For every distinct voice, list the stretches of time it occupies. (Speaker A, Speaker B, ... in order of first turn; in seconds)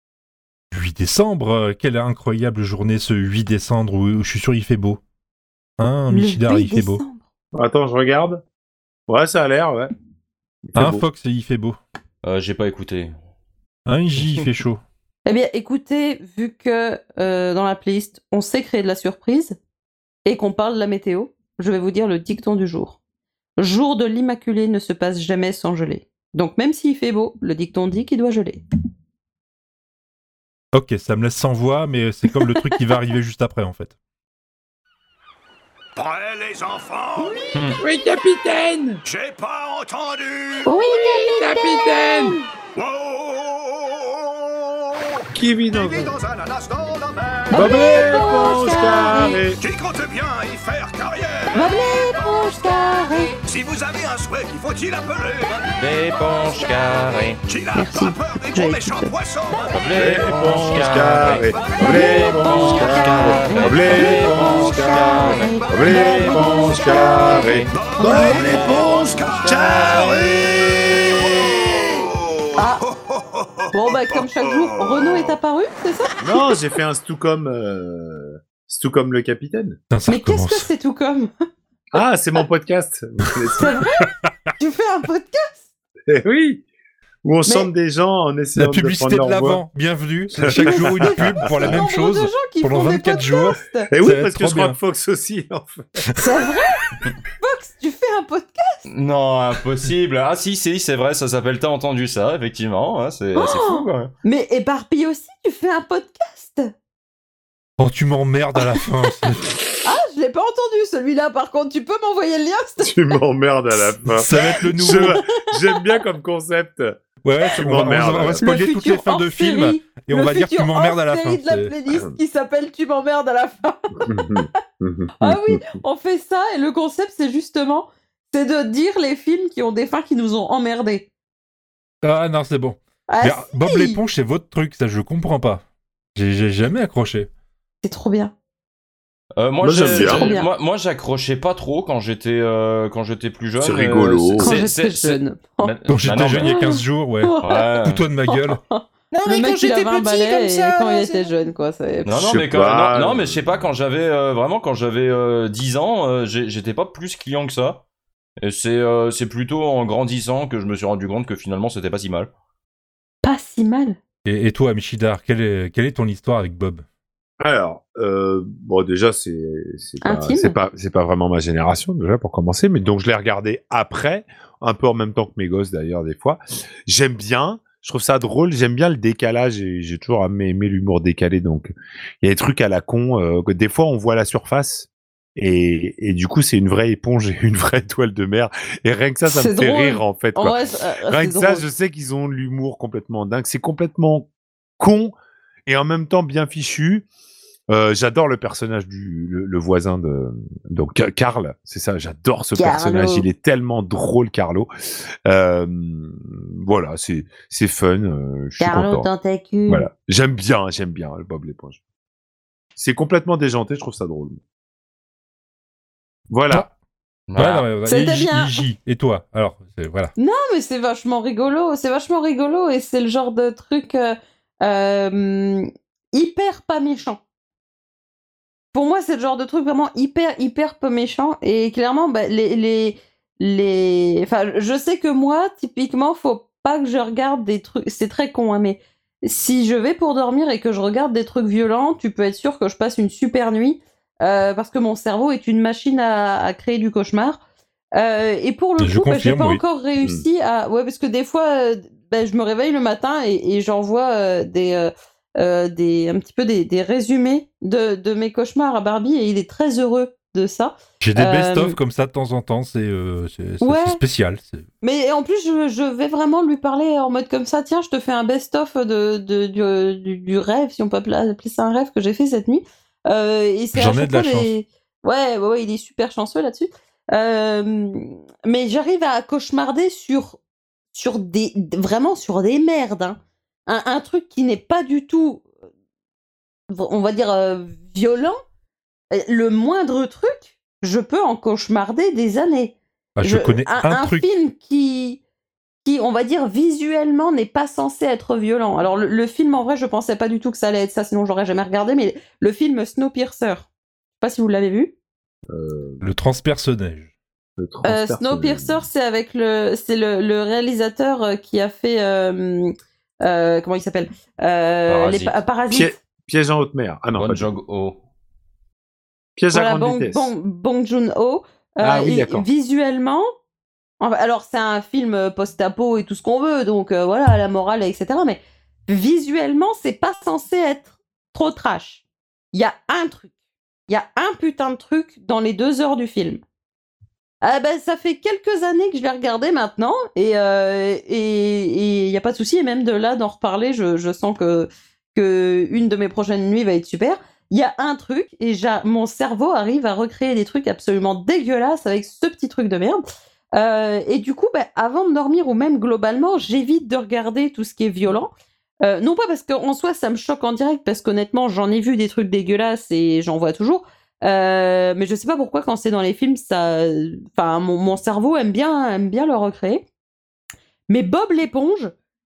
Speaker A: 0.7-5.0, 5.8-7.0, 10.8-11.8, 13.9-14.8, 30.7-34.0, 79.9-80.7, 88.5-94.8, 107.8-109.6, 114.1-115.2, 117.2-121.8, 132.0-137.3, 145.9-148.6, 164.2-166.8, 217.4-220.1, 248.8-249.6, 261.0-264.6, 273.8-274.5, 293.2-294.2, 306.0-307.1
Speaker B: 6.1-7.2, 15.3-19.6, 20.2-23.0, 23.6-28.6, 40.6-42.5, 47.5-49.4, 51.5-53.3, 57.7-59.1, 61.8-70.0, 71.4-72.0, 72.6-72.9, 73.7-76.5, 80.1-81.3, 83.6-84.1, 84.6-85.7, 90.5-93.9, 96.2-96.8, 97.4-98.9, 103.4-106.7, 109.8-113.2, 118.4-124.2, 125.2-131.1, 133.1-134.0, 137.8-138.3, 139.8-140.5, 144.4-145.8, 146.4-147.7, 148.3-152.1, 163.2-164.0, 170.0-170.6, 189.3-191.7, 202.6-203.3, 208.6-209.9, 217.8-218.6, 220.2-227.2, 228.7-247.4, 248.0-261.8, 263.6-264.0, 264.8-280.4, 280.9-285.5, 286.7-288.4, 289.1-295.2, 295.9-303.7, 304.2-304.9, 307.8-312.7, 313.2-315.9, 319.5-323.2, 324.0-333.3, 333.9-336.4, 337.4-353.0, 353.6-358.3, 358.8-369.9, 370.9-371.9
Speaker C: 7.5-8.4, 9.1-9.9, 10.7-11.0, 37.8-39.0, 40.9-42.4, 45.3-46.2, 47.5-49.6, 59.9-70.8, 76.2-79.8, 81.9-84.1, 86.1-86.6, 87.2-89.6, 90.3-91.8, 93.9-96.0, 112.8-116.9, 117.6-118.5, 124.0-125.6, 139.6-140.3, 143.6-144.6, 152.1-153.7, 167.4-195.2, 195.7-197.1, 197.7-204.7, 205.3-209.1, 209.7-211.8, 212.8-214.4, 216.3-216.7, 250.0-250.3, 305.5-306.1, 307.6-308.9, 315.7-317.6, 319.4-320.3, 321.8-322.5
Speaker D: 12.2-13.1, 55.7-57.4, 59.7-67.7, 98.9-104.1, 139.4-146.5, 147.4-148.0, 149.1-151.3, 152.1-157.8, 158.4-162.3, 217.3-217.7, 314.9-315.4, 317.1-318.0
Speaker E: 36.0-37.4, 39.0-40.7, 42.8-47.7, 49.6-51.7, 53.4-55.6, 57.5-59.8, 67.7-71.7, 73.1-73.5